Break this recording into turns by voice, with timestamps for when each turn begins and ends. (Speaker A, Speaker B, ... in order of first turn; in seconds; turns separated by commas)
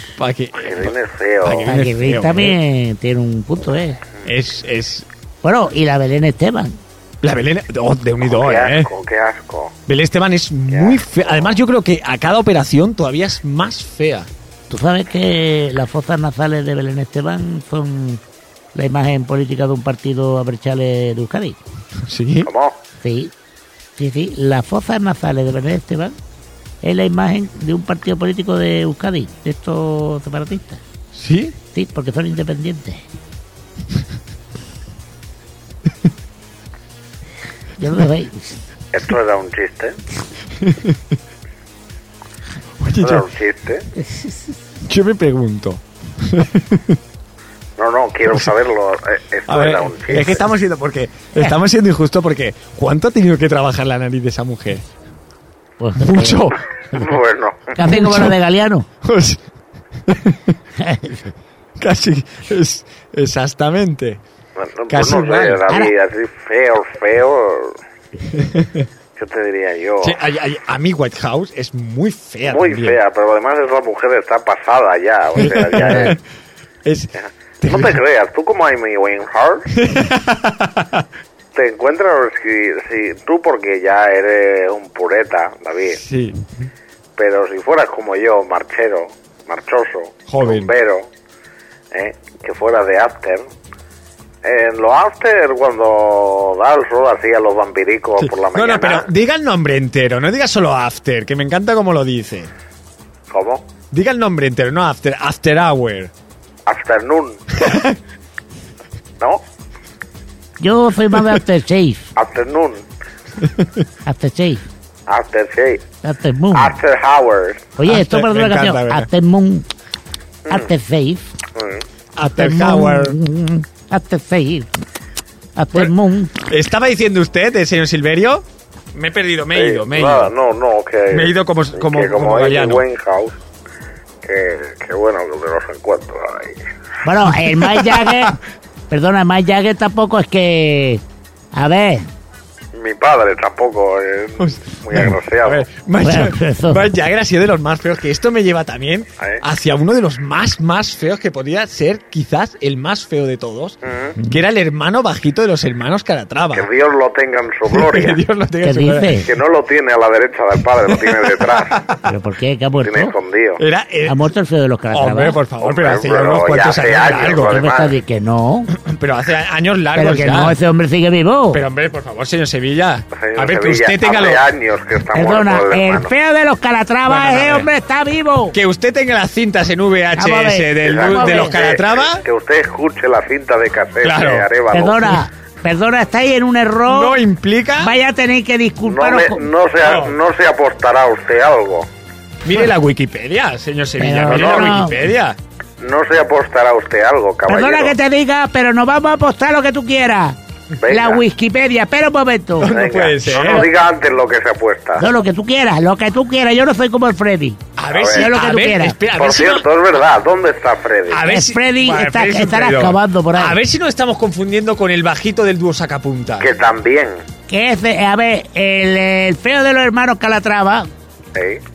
Speaker A: 0.2-2.6, Speaker B: 0.6-1.7, Speaker C: 1.6-4.0, Speaker A: 4.2-5.1, Speaker C: 5.4-6.8, Speaker A: 7.2-8.9, Speaker B: 8.2-9.8, Speaker A: 9.9-14.3, Speaker B: 10.7-11.5, Speaker C: 14.7-18.2, Speaker C: 18.8-21.6, Speaker A: 22.0-22.5, Speaker B: 22.5-22.8, Speaker C: 23.0-23.3, Speaker C: 24.0-26.2, Speaker C: 26.8-30.8, Speaker A: 31.1-31.6, Speaker C: 31.7-33.0, Speaker C: 37.8-38.6, Speaker B: 38.9-40.0, Speaker A: 40.6-41.0, Speaker A: 42.8-43.3, Speaker B: 43.0-43.9, Speaker A: 44.8-47.0, Speaker B: 47.8-50.4, Speaker A: 49.5-54.9, Speaker C: 55.8-57.1, Speaker A: 56.0-56.6, Speaker B: 56.9-57.8, Speaker C: 57.8-58.9, Speaker A: 57.8-58.4, Speaker A: 59.0-59.4, Speaker A: 60.0-60.5, Speaker C: 60.8-61.3, Speaker A: 61.8-64.2, Speaker B: 64.6-67.8, Speaker A: 64.9-65.6, Speaker A: 68.3-68.9, Speaker B: 69.2-70.2, Speaker A: 70.0-73.0, Speaker B: 72.5-76.2, Speaker A: 75.4-76.2, Speaker A: 76.8-77.1, Speaker B: 77.2-79.7, Speaker A: 77.6-78.0, Speaker A: 79.7-81.1, Speaker B: 81.5-86.0, Speaker A: 85.9-86.5, Speaker B: 87.2-91.1, Speaker A: 90.3-90.7, Speaker B: 91.9-93.5, Speaker B: 94.4-99.1, Speaker A: 98.2-102.5, Speaker B: 103.3-103.7, Speaker A: 103.9-106.1, Speaker B: 106.7-107.8, Speaker A: 107.6-108.0, Speaker C: 110.6-112.1, Speaker B: 112.2-112.8, Speaker A: 113.4-113.8, Speaker C: 114.0-114.6, Speaker B: 115.1-115.8, Speaker C: 116.0-116.8, Speaker B: 116.5-117.7, Speaker C: 117.8-119.7, Speaker A: 117.9-119.1, Speaker C: 120.5-121.3, Speaker B: 121.5-121.8, Speaker A: 122.2-123.2, Speaker C: 122.3-124.7, Speaker C: 125.6-126.5, Speaker A: 126.5-130.3, Speaker B: 129.5-133.3, Speaker A: 131.1-132.8, Speaker B: 134.2-136.6, Speaker C: 137.0-141.0, Speaker A: 137.4-138.4, Speaker C: 141.5-142.1, Speaker B: 142.8-145.7, Speaker A: 144.4-156.7, Speaker C: 146.0-146.9, Speaker B: 153.8-154.2, Speaker B: 156.5-158.2, Speaker A: 157.7-159.3, Speaker C: 158.6-159.3, Speaker B: 159.2-161.8, Speaker A: 160.9-162.1, Speaker C: 162.1-163.1, Speaker B: 162.8-163.6, Speaker A: 163.6-164.3, Speaker C: 164.1-165.4, Speaker A: 164.9-167.6, Speaker B: 165.6-167.9, Speaker C: 167.4-168.7, Speaker A: 168.7-170.6, Speaker C: 169.9-171.6, Speaker A: 171.5-174.4, Speaker B: 173.1-176.1, Speaker C: 175.1-178.6, Speaker A: 177.1-177.7, Speaker A: 178.5-182.2, Speaker C: 180.2-181.6, Speaker B: 180.8-185.2, Speaker A: 184.0-184.5, Speaker C: 184.7-187.2, Speaker A: 186.9-187.9, Speaker C: 187.8-189.5, Speaker B: 188.8-191.9, Speaker A: 189.8-190.1, Speaker A: 192.4-195.4, Speaker C: 194.0-195.0, Speaker B: 194.3-194.7, Speaker B: 195.8-198.0, Speaker C: 197.5-202.7, Speaker B: 200.8-201.2, Speaker A: 202.6-203.7, Speaker B: 202.7-205.1, Speaker C: 205.0-207.6, Speaker A: 207.8-209.7, Speaker B: 207.9-208.3, Speaker C: 208.1-209.0, Speaker B: 209.2-211.2, Speaker A: 211.1-216.5, Speaker C: 211.2-213.6, Speaker B: 216.4-217.2, Speaker C: 217.5-220.9, Speaker B: 221.3-221.6